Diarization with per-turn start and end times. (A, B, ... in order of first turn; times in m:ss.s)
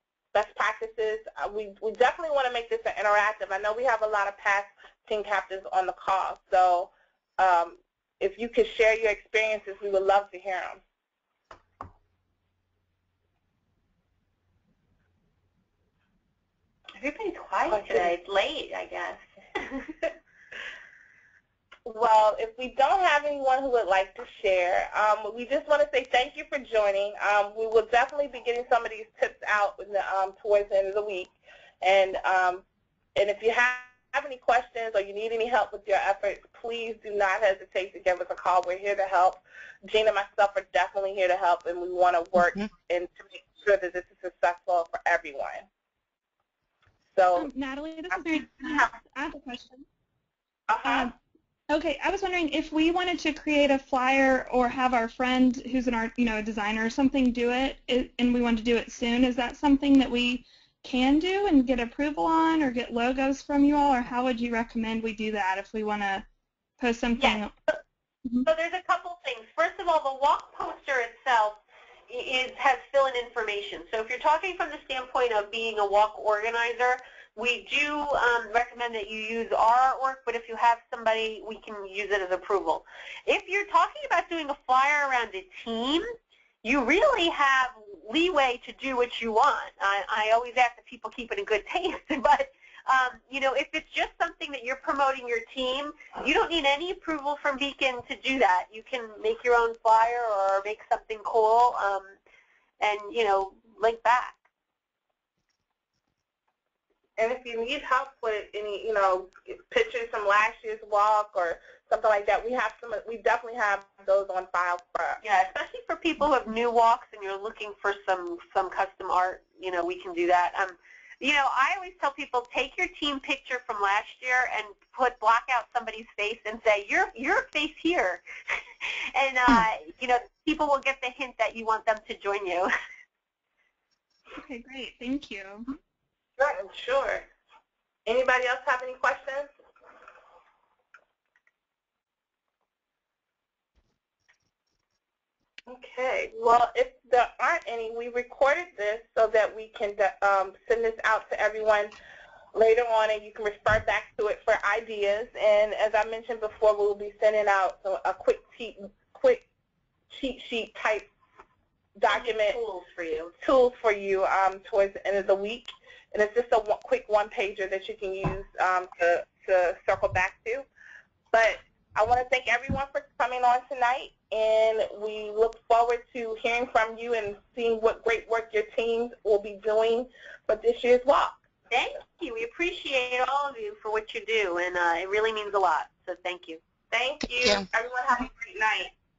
0:00.3-0:10.8 A
0:17.0-0:20.0 B
0:17.7-0:18.1 A
0:21.9-0:32.6 A
0:33.1-0:45.7 A
0:47.1-0:47.5 A
0:47.4-0:49.8 C
0:50.7-0:51.1 A
0:50.8-0:51.1 C
0:51.7-1:06.2 C
1:06.8-1:07.5 C
1:07.2-1:07.4 B
1:08.4-1:26.0 B
1:26.6-1:42.1 B
1:42.8-1:44.4 B
1:47.2-1:55.2 A
1:55.2-2:12.7 B
2:14.4-2:15.7 C
2:16.4-2:17.3 A
2:18.1-2:19.5 A
2:25.7-2:31.9 A
2:32.6-2:39.4 A
2:40.1-2:41.1 A
2:42.0-2:42.6 A
2:42.1-2:43.3 B
2:43.4-2:50.6 A
2:51.3-3:01.4 A
3:01.7-3:06.6 B
3:06.9-3:08.9 A